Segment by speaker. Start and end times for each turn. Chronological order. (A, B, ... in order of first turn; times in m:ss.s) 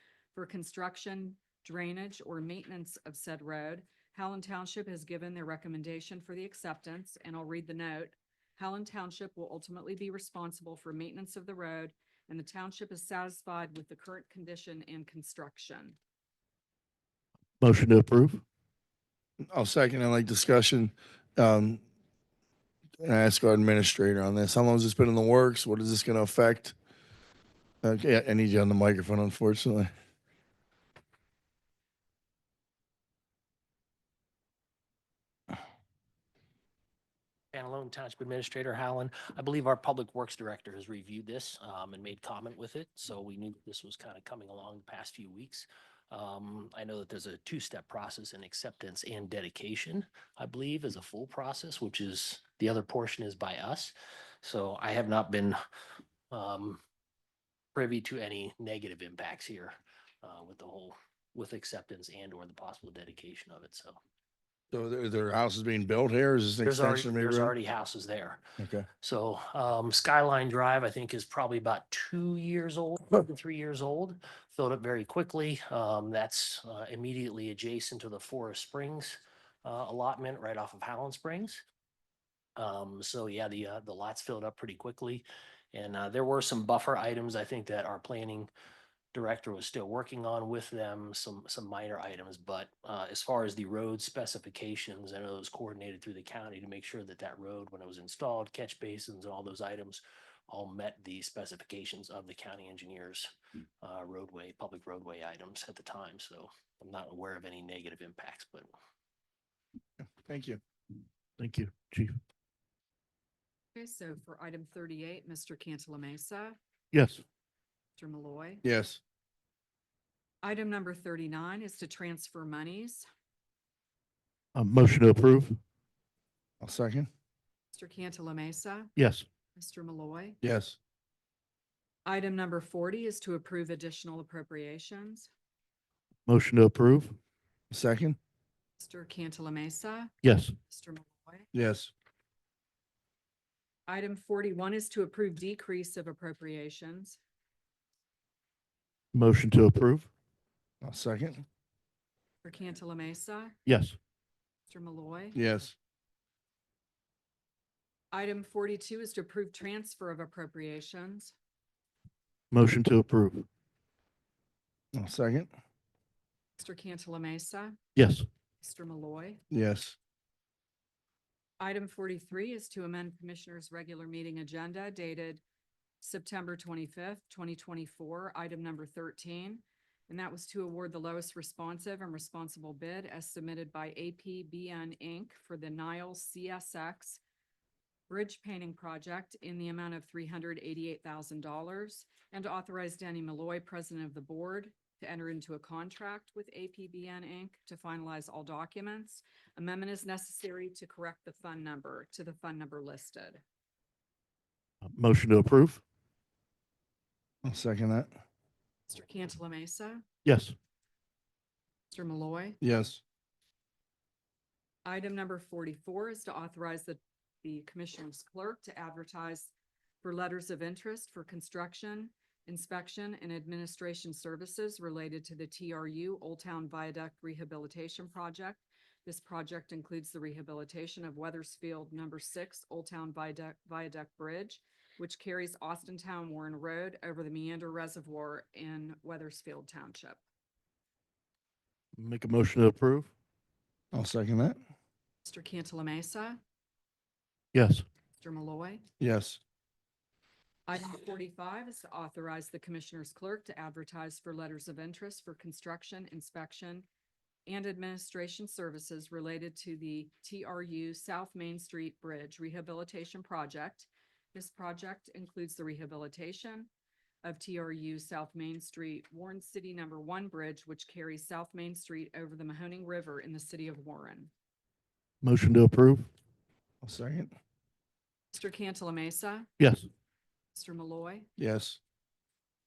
0:00.3-0:16.0 A
0:17.6-0:18.4 B
0:19.4-0:21.8 C
0:23.0-0:26.7 C
0:27.8-0:29.9 C
0:37.5-0:55.6 D
0:56.3-0:56.8 D
0:57.7-1:04.0 D
1:04.7-1:07.5 C
1:06.6-1:08.4 D
1:08.6-1:08.9 C
1:09.0-1:21.6 D
1:22.6-1:28.5 D
1:29.1-1:43.3 D
1:43.8-1:48.7 D
1:50.0-1:50.6 C
1:51.4-1:52.2 B
1:53.7-1:56.6 A
1:56.9-1:57.2 B
1:58.0-1:58.6 A
1:58.6-1:59.0 C
2:00.4-2:03.0 A
2:04.5-2:05.6 B
2:06.6-2:07.1 C
2:07.7-2:08.9 A
2:09.0-2:09.3 B
2:09.5-2:10.4 A
2:10.4-2:10.8 C
2:12.0-2:15.3 A
2:16.2-2:17.2 B
2:17.7-2:18.2 C
2:18.8-2:20.1 A
2:20.2-2:20.5 B
2:20.7-2:21.5 A
2:21.5-2:21.9 C
2:23.9-2:27.2 A
2:29.1-2:30.1 B
2:30.8-2:31.4 C
2:32.4-2:33.6 A
2:33.6-2:34.0 B
2:34.7-2:35.4 A
2:35.3-2:35.7 C
2:38.1-2:41.3 A
2:42.5-2:43.5 B
2:44.9-2:45.5 C
2:46.6-2:47.8 A
2:48.0-2:48.2 B
2:48.6-2:49.4 A
2:49.5-2:50.0 C
2:51.6-2:55.4 A
2:56.0-3:07.2 A
3:08.1-3:23.4 A
3:24.8-3:25.8 B
3:27.4-3:28.1 C
3:28.9-3:30.0 A
3:30.2-3:30.5 B
3:31.9-3:32.6 A
3:32.6-3:33.0 C
3:34.8-4:00.2 A
4:02.0-4:03.1 B
4:03.9-4:04.6 C
4:05.2-4:06.4 A
4:07.5-4:07.8 B
4:08.2-4:08.8 A
4:09.0-4:09.4 C
4:10.7-4:16.8 A
4:17.4-4:26.7 A
4:27.2-4:34.3 A
4:35.2-4:36.1 B
4:36.8-4:37.3 C
4:38.3-4:39.5 A
4:39.6-4:39.9 B
4:40.5-4:41.3 A
4:41.4-4:41.8 C